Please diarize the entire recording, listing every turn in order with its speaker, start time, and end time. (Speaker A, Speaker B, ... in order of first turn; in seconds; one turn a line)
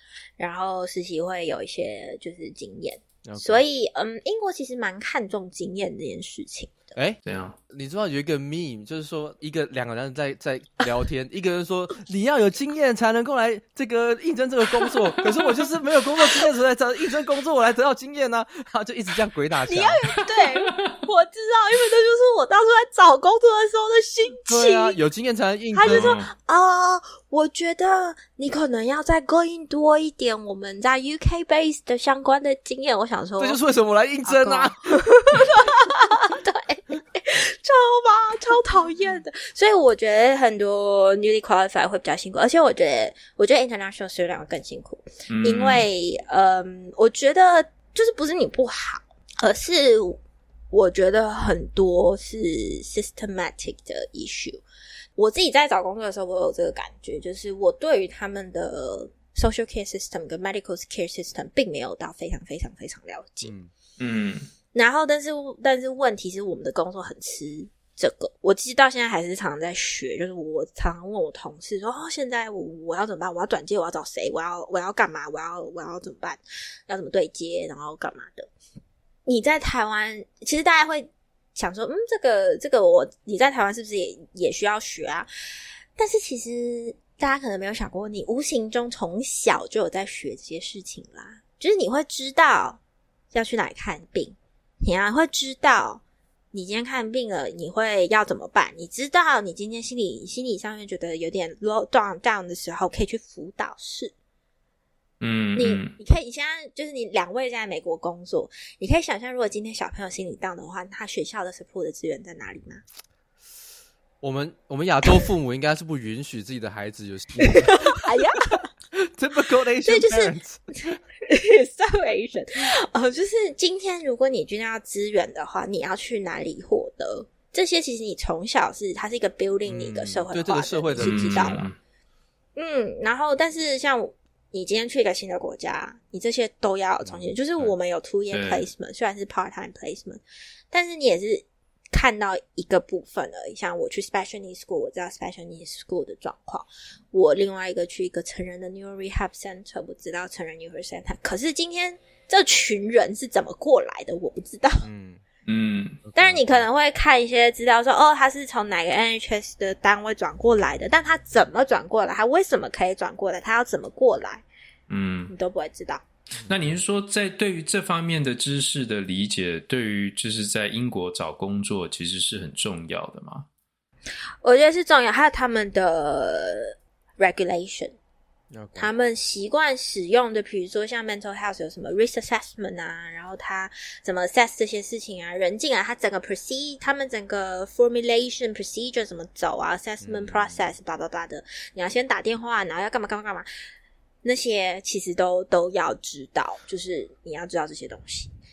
Speaker A: 0.4-6.9
Speaker B: 3.2-3.6
Speaker C: 7.2-7.6
Speaker B: 7.7-20.0
Speaker A: 19.7-25.0
Speaker C: 20.6-21.0
Speaker B: 24.5-26.2
Speaker A: 25.7-33.6
Speaker C: 25.8-26.3
Speaker B: 33.4-35.0
Speaker A: 34.2-50.2
Speaker C: 45.3-45.9
Speaker A: 50.7-54.6
Speaker A: 55.2-63.5
Speaker B: 63.4-63.7
Speaker C: 64.0-64.5
Speaker A: 64.7-78.5
Speaker A: 79.2-85.3
Speaker A: 86.0-92.8
Speaker A: 93.3-104.1
Speaker C: 105.2-105.9
Speaker A: 105.5-112.8
Speaker B: 114.2-118.0
Speaker A: 117.4-118.7
Speaker B: 118.9-120.6
Speaker A: 119.8-131.6
Speaker B: 129.7-131.7
Speaker C: 131.0-131.8
Speaker A: 132.6-140.2
Speaker B: 137.0-137.7
Speaker C: 138.3-138.7
Speaker A: 140.7-154.9
Speaker B: 154.8-155.2
Speaker C: 155.4-156.0
Speaker B: 156.0-156.6
Speaker A: 156.1-164.4
Speaker C: 164.9-165.3
Speaker A: 165.3-166.0
Speaker C: 166.4-173.5
Speaker A: 174.4-177.9
Speaker B: 178.5-178.9
Speaker A: 178.8-193.5
Speaker B: 190.0-190.6
Speaker A: 194.2-198.3